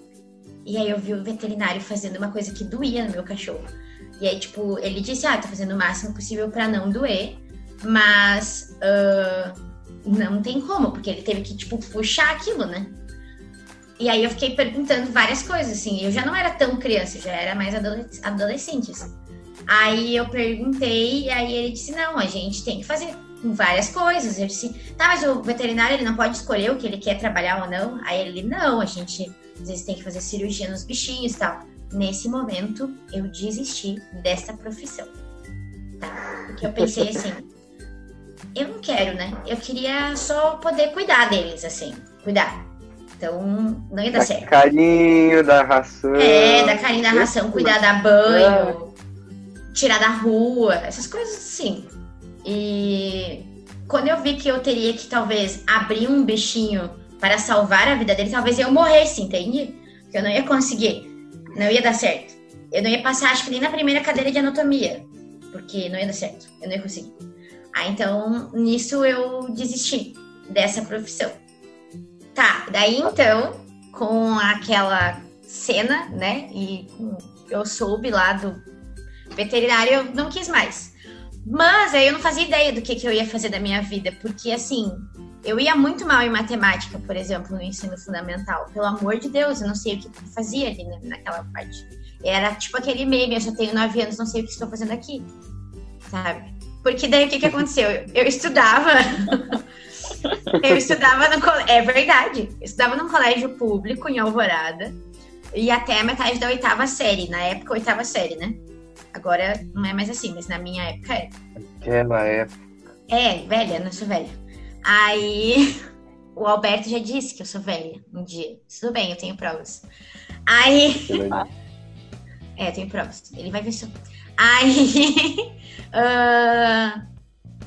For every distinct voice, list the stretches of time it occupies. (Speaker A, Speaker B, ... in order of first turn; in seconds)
Speaker A: 0.6-12.9, 14.0-19.1, 19.7-35.1, 36.0-37.5, 38.5-42.6, 43.2-44.5, 46.1-48.9, 49.7-51.9, 52.4-67.1, 67.7-71.3, 72.3-78.6, 79.3-80.9, 81.4-95.3, 96.1-99.6, 100.5-105.0, 105.5-108.6, 109.1-111.3, 113.1-115.8, 116.3-119.9, 120.5-121.2, 122.6-127.0
Speaker B: 44.1-48.8, 111.7-112.5, 121.0-121.5